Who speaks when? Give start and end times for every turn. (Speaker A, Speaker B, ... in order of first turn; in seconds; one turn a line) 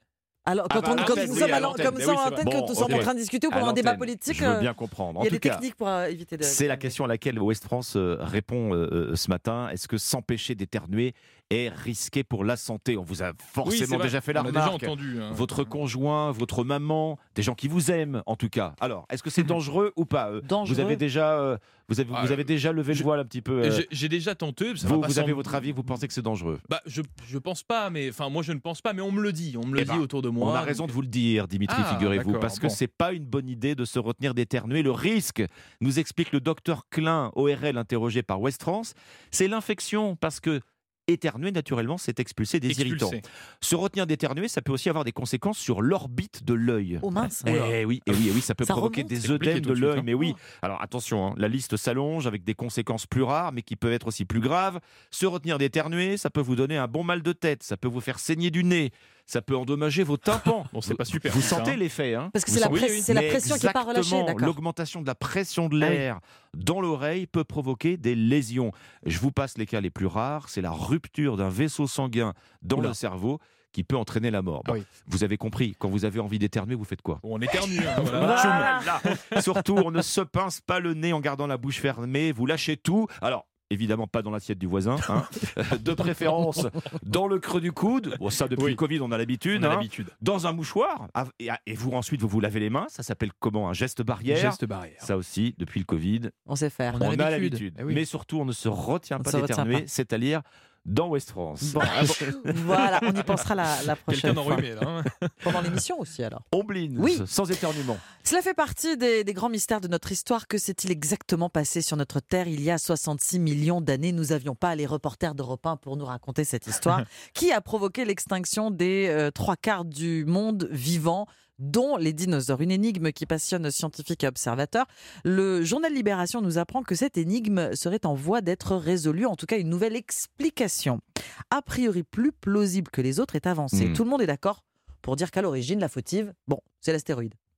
Speaker A: 0.4-7.0
Speaker B: 0.7-5.6
Speaker C: 0.9-3.1
Speaker B: 6.4-23.9
Speaker C: 13.6-15.7
Speaker A: 20.4-21.0
Speaker C: 22.1-23.1
Speaker C: 23.6-26.0
Speaker B: 24.8-26.6
Speaker C: 26.7-30.9
Speaker B: 29.8-77.2
Speaker C: 31.7-32.8
Speaker C: 42.7-43.2
Speaker A: 47.0-47.6
Speaker C: 47.4-48.3
Speaker A: 48.6-49.1
Speaker C: 49.2-50.1
Speaker C: 60.7-61.8
Speaker A: 62.3-64.6
Speaker C: 62.6-63.1
Speaker C: 77.2-79.4
Speaker B: 78.0-96.3
Speaker A: 78.0-79.0
Speaker C: 89.5-90.1
Speaker C: 94.3-95.1
Speaker A: 96.5-97.1
Speaker C: 96.9-98.0
Speaker B: 97.0-103.3
Speaker A: 99.2-99.8
Speaker A: 101.6-104.7
Speaker C: 104.1-105.7
Speaker A: 105.4-107.2
Speaker B: 106.5-108.0
Speaker A: 108.1-137.3
Speaker B: 133.7-134.0